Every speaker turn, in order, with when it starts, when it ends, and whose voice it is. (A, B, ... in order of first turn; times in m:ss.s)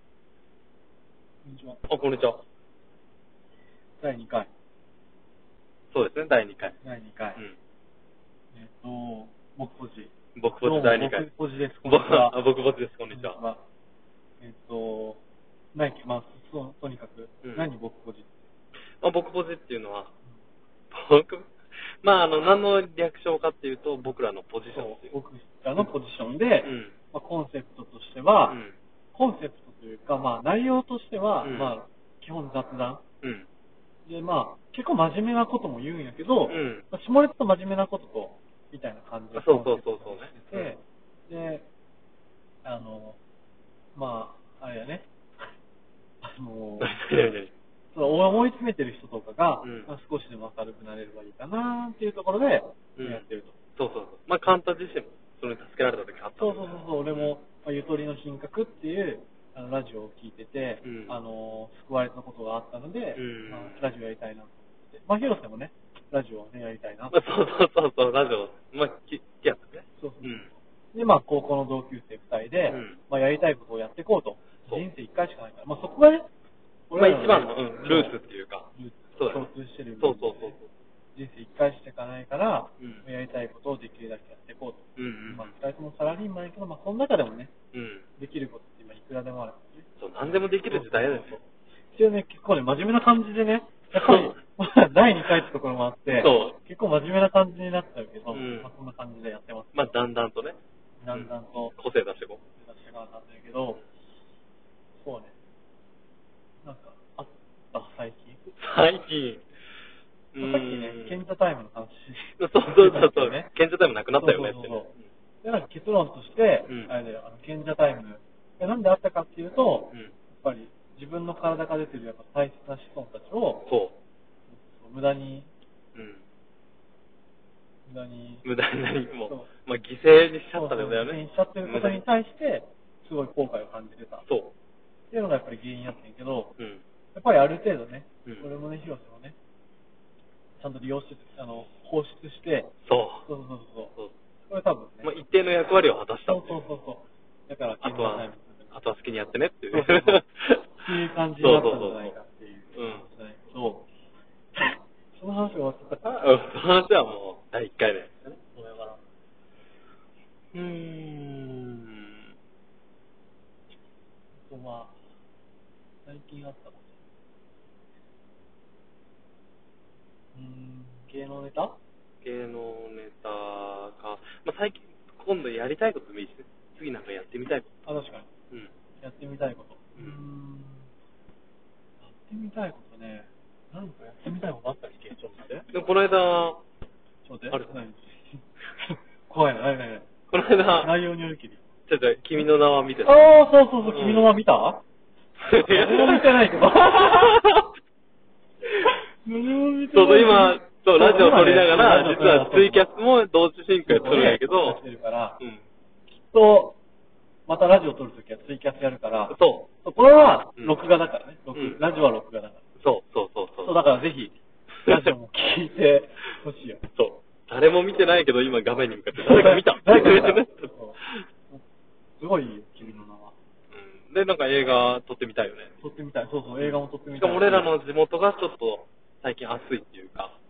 0:01.4-0:01.8 A
0:01.9-0:02.4 B
0:04.0-0:04.5 A
0:05.9-0:06.8 B
0:06.8-0:07.4 A
0:08.5-0:12.4 A
0:10.4-0:11.3 B
0:11.8-0:13.4 B
0:13.1-0:13.6 A
0:14.4-0:15.2 A
0:15.7-0:18.3 A
0:17.4-0:17.7 B
0:19.0-0:20.1 B
0:20.9-0:25.1 B
0:24.7-0:28.6 A
0:26.6-0:27.0 B
0:28.5-0:28.8 B
0:29.1-0:33.0 A
0:31.4-0:31.7 B
0:34.1-0:41.7 A
0:36.5-0:36.9 B
0:39.3-0:40.7 B
0:42.6-0:43.2 A
0:44.0-0:45.5 A
0:46.2-0:47.0 A
0:46.8-0:47.5 B
0:47.9-0:53.6 A
0:49.6-0:49.9 B
0:53.0-0:57.4 B
0:56.4-1:07.2 A
1:00.8-1:01.2 B
1:03.2-1:03.9 B
1:07.1-1:10.5 B
1:10.0-1:16.3 A
1:12.7-1:13.0 B
1:16.9-1:18.2 A
1:17.0-1:19.5 B
1:18.7-1:20.6 A
1:20.0-1:20.7 B
1:21.2-1:27.5 A
1:22.8-1:23.0 B
1:25.0-1:25.5 B
1:27.7-1:28.1 B
1:28.2-1:31.4 A
1:30.0-1:31.4 B
1:31.9-1:39.9 A
1:34.0-1:34.4 B
1:36.1-1:36.6 B
1:38.3-1:38.7 B
1:39.7-1:40.6 B
1:41.0-1:41.8 A
1:41.1-1:42.4 B
1:42.6-1:43.8 A
1:45.0-1:45.3 A
1:46.6-1:48.4 A
1:48.6-1:49.4 B
1:50.3-1:51.2 B
1:50.4-1:53.5 A
1:52.4-1:55.0 B
1:54.2-1:54.9 A
1:55.4-2:03.7 A
1:56.7-1:56.9 B
2:03.7-2:04.0 B
2:04.5-2:05.5 A
2:06.0-2:06.2 B
2:07.9-2:08.5 A
2:08.4-2:12.0 B
2:10.5-2:14.3 A
2:14.3-2:14.5 B
2:15.1-2:16.5 A
2:17.1-2:19.4 A
2:20.6-2:22.7 A
2:22.9-2:23.3 B
2:23.2-2:24.0 A
2:24.5-2:25.2 A
2:25.0-2:26.7 B
2:26.2-2:28.7 A
2:27.8-2:30.8 B
2:29.7-2:30.2 A
2:30.8-2:33.9 A
2:31.4-2:32.2 B
2:32.7-2:33.1 B
2:34.5-2:36.2 A
2:36.0-2:38.4 B
2:38.4-2:39.0 A
2:40.5-2:42.2 B
2:44.4-2:45.0 A
2:46.0-2:47.0 A
2:50.3-2:51.8 A
2:52.2-2:57.7 B
2:57.8-2:58.3 A
2:59.0-3:00.9 A
3:02.0-3:05.7 A
3:05.7-3:06.6 B
3:07.2-3:10.1 A
3:10.3-3:10.9 B
3:10.8-3:11.6 A
3:11.9-3:13.2 B
3:13.0-3:14.8 A
3:13.8-3:14.3 B
3:15.4-3:17.7 B
3:15.7-3:17.3 A
3:19.2-3:22.9 A
3:19.9-3:24.8 B
3:23.8-3:25.4 A
3:26.1-3:26.8 A
3:27.5-3:32.6 A
3:29.3-3:29.7 B
3:31.5-3:31.8 B
3:32.8-3:33.8 B
3:33.6-3:36.8 A
3:37.0-3:41.2 B
3:39.2-3:41.6 A
3:42.2-3:43.4 A
3:42.8-3:43.0 B
3:43.7-3:45.8 B
3:45.8-3:47.7 A
3:46.6-3:50.4 B